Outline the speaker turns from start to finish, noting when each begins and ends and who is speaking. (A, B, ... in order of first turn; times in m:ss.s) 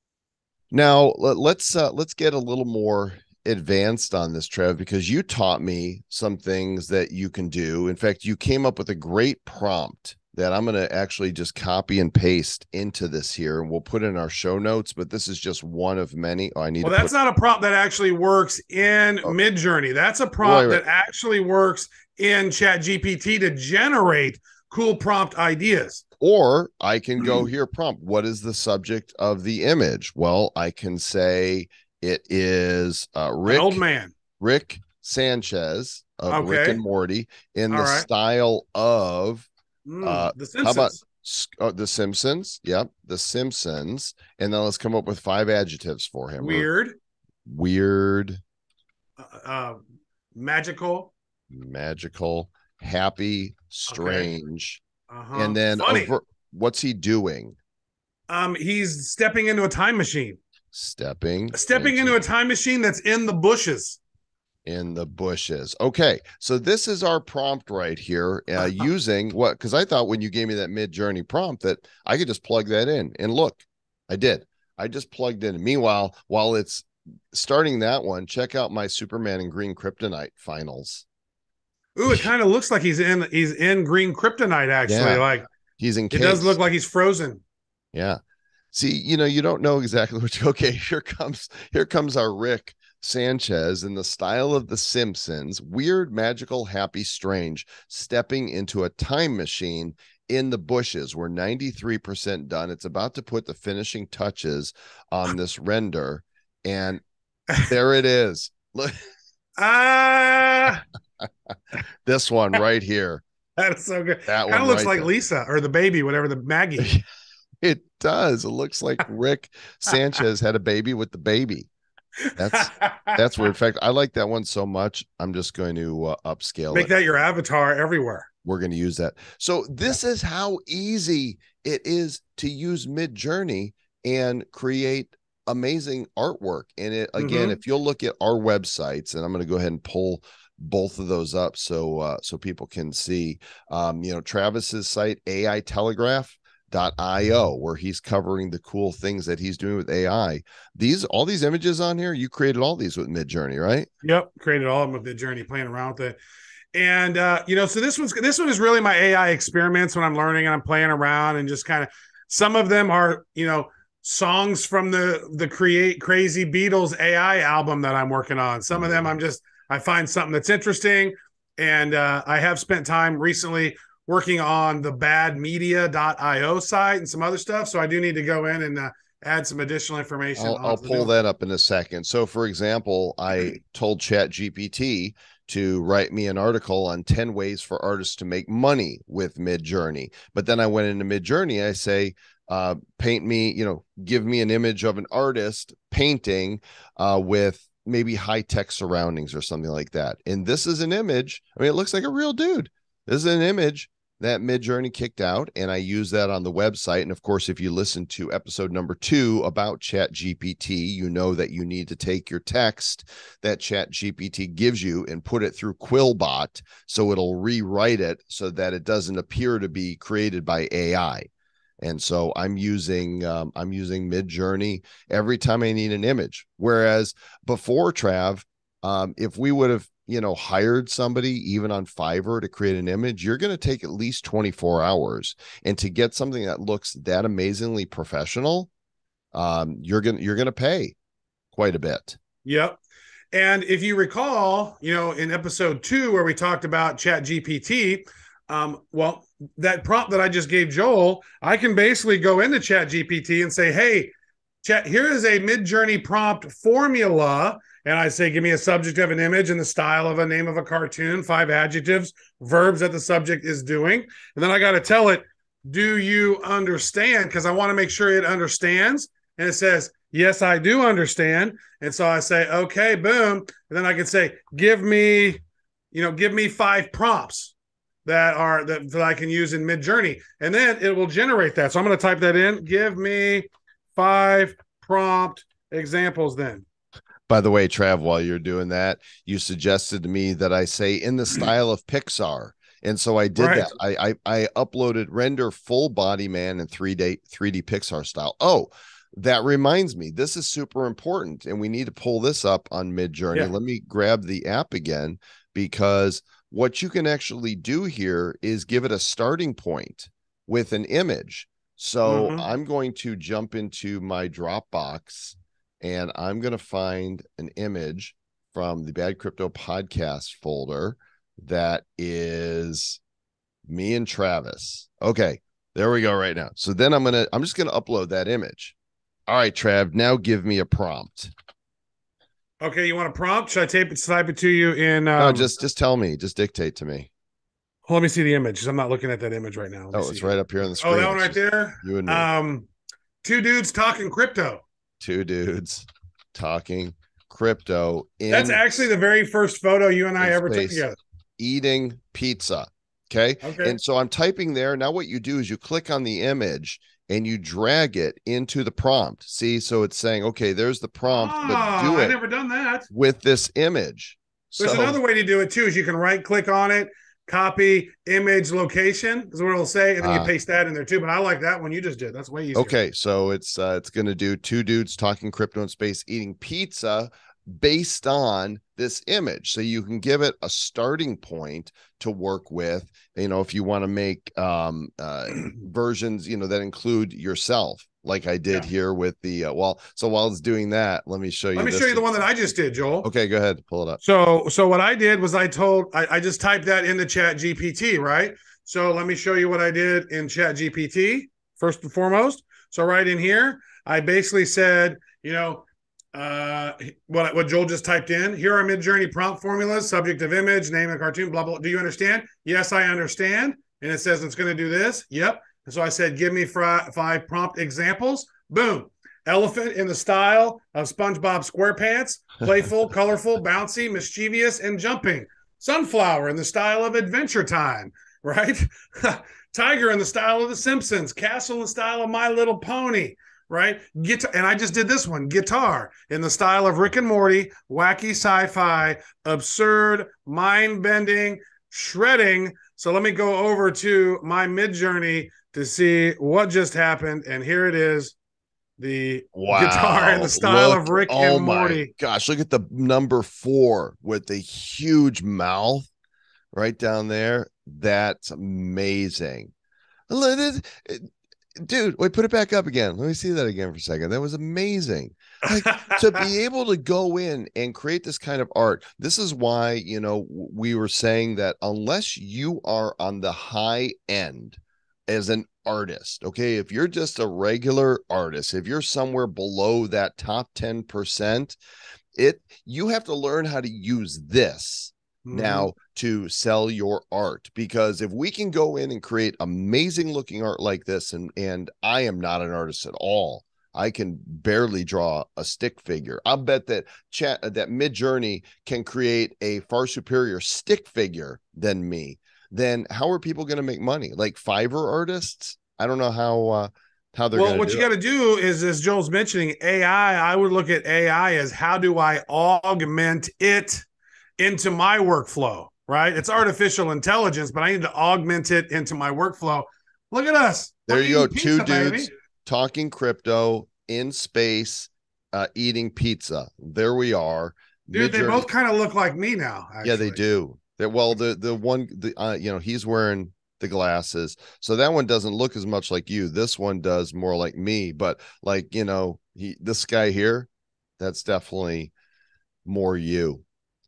0:00.7-0:17.1 A
0:16.8-0:26.0 B
0:20.4-0:20.8 A
0:26.2-0:33.8 A
0:33.4-0:34.1 B
0:34.4-0:39.5 A
0:36.3-0:36.8 B
0:37.7-0:38.1 B
0:39.8-0:41.0 B
0:40.0-0:46.7 A
0:46.4-0:46.9 B
0:47.4-0:48.4 A
0:49.2-0:49.8 B
0:50.3-0:51.1 B
0:51.5-0:54.8 A
0:53.9-0:54.3 B
0:55.1-0:56.1 B
0:55.3-0:57.6 A
0:58.3-1:00.4 B
1:00.7-1:02.2 A
1:01.5-1:04.0 B
1:04.6-1:21.0 A
1:22.0-1:25.4 B
1:24.9-1:25.2 A
1:25.8-1:26.6 A
1:26.1-1:27.4 B
1:27.9-1:28.2 A
1:28.7-1:47.0 A
1:47.6-1:49.0 A
1:49.6-1:50.8 B
1:52.0-1:53.2 A
1:53.6-1:56.9 B
1:54.2-1:55.1 A
1:56.8-1:57.0 A
1:57.6-2:01.7 A
2:02.2-2:03.2 B
2:02.4-2:06.9 A
2:06.7-2:08.3 B
2:08.4-2:33.9 A
2:17.2-2:17.6 B
2:34.0-2:36.2 B
2:36.7-3:01.1 B
3:00.4-3:41.3 A
3:41.8-3:58.7 A
3:59.3-4:00.9 A
4:01.5-4:02.2 A
4:02.4-4:02.8 B
4:03.3-4:37.5 B
4:38.0-4:46.6 B
4:47.3-5:23.0 A
4:53.4-4:53.7 B
5:12.0-5:12.4 B
5:23.7-5:28.7 A
5:29.3-5:31.3 A
5:32.6-5:35.5 B
5:35.2-5:37.1 A
5:37.9-5:42.7 B
5:39.9-5:42.3 A
5:43.2-5:44.6 B
5:45.0-5:48.6 A
5:48.3-5:51.0 B
5:50.2-5:50.8 A
5:51.4-6:02.2 A
5:53.4-5:53.8 B
6:01.1-6:02.9 B
6:02.9-6:05.0 A
6:04.6-6:12.7 B
6:10.0-6:10.3 A
6:12.5-6:32.0 A
6:31.6-6:33.1 B
6:33.0-6:34.0 A
6:34.0-7:28.1 B
7:28.8-7:31.9 B
7:29.3-7:35.9 A
7:36.5-7:39.5 A
7:40.1-8:01.6 A
7:45.5-7:46.2 B
8:02.2-8:27.9 A
8:05.2-8:05.7 B
8:27.3-8:33.8 B
8:34.4-8:42.1 B
8:40.9-8:48.5 A
8:47.9-8:50.2 B
8:49.8-9:01.9 A
9:02.6-9:03.4 A